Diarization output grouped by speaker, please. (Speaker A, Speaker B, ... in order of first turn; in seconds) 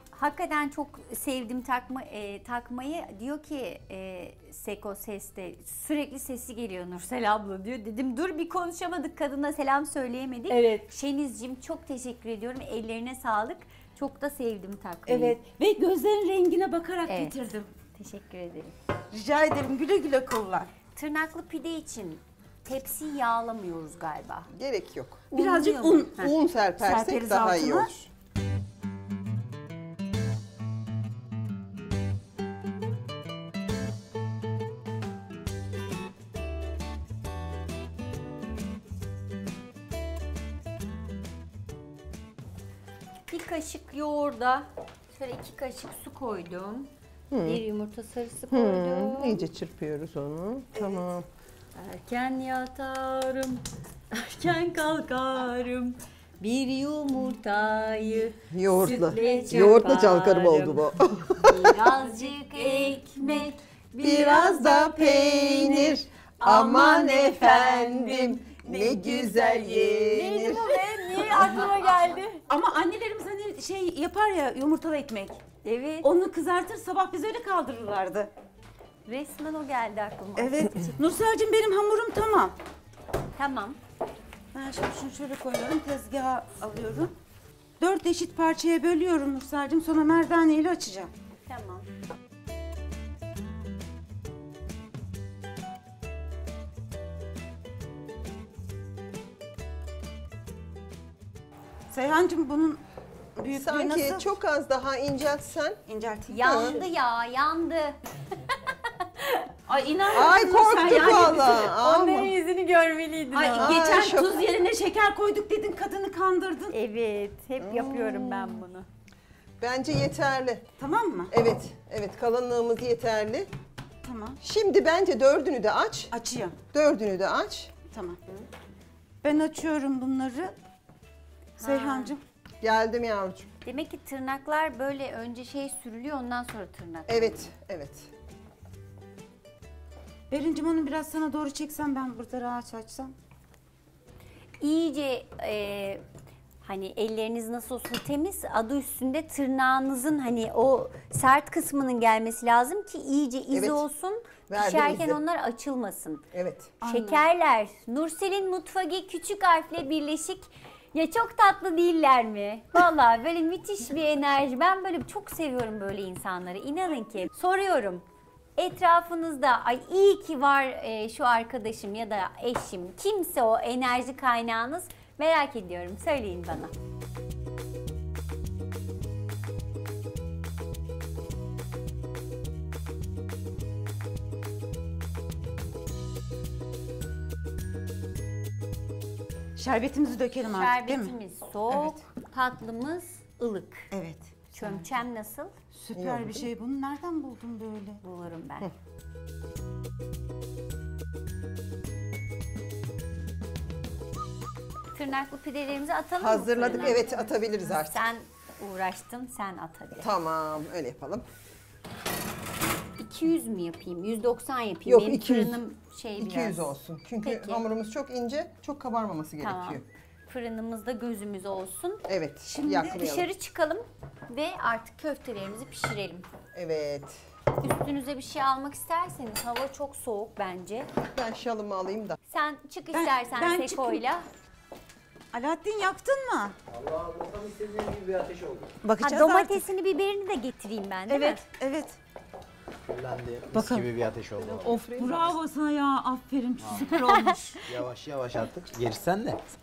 Speaker A: 0.1-15.4, 17.1-17.4, 18.0-18.7, 20.9-24.5, 25.3-26.3, 43.3-46.9, 47.4-49.5, 51.8-68.3, 70.0-72.4, 75.6-76.1, 79.1-81.0, 83.4-83.8, 91.5-91.9, 106.3-109.5, 110.8-113.8, 116.7-118.9, 131.6-132.2, 133.7-137.5, 144.6-146.0, 146.6-156.3, 156.8-168.1, 168.6-176.7, 190.4-193.9, 194.5-195.5, 198.0-198.7, 204.9-210.1, 213.0-217.7, 219.4-222.1, 222.8-226.3, 227.6-230.9, 232.3-234.2, 239.0-241.4, 246.9-247.4
Speaker B: 10.5-10.9, 15.1-17.7, 19.1-20.7, 25.3-26.2, 26.8-27.9, 50.7-51.1, 58.9-59.7, 68.6-70.0, 71.3-71.7, 72.5-75.4, 76.0-78.3, 80.4-82.5, 84.5-87.1, 87.8-91.1, 101.9-102.8, 103.4-104.3, 105.9-106.8, 109.7-111.7, 113.3-116.7, 120.8-121.3, 124.0-124.4, 126.1-126.5, 127.9-128.2, 129.2-130.5, 131.6-132.2, 140.3-143.1, 156.8-157.2, 189.6-191.1, 193.9-194.9, 195.7-198.0, 222.5-223.0, 232.9-234.0, 235.3-236.6, 238.8-239.7, 241.1-242.0, 243.5-243.9, 245.0-247.7
Speaker C: 24.5-25.2, 26.2-28.1, 47.3-47.6, 48.5-51.3, 58.5-61.8, 64.0-70.8, 103.5-105.8, 106.4-106.8, 110.1-112.3, 113.5-114.4, 117.6-118.6, 119.6-120.7, 121.3-123.5, 124.4-126.1, 126.7-127.8, 132.6-133.5, 137.1-138.1, 153.5-153.8, 154.5-155.2, 156.3-156.8, 195.9-196.5, 206.2-208.0, 210.0-211.3, 214.9-215.6, 216.2-219.8, 222.1-223.3, 226.5-227.2, 231.1-232.2, 244.3-245.3
Speaker D: 236.7-238.8, 242.9-244.9, 247.6-249.4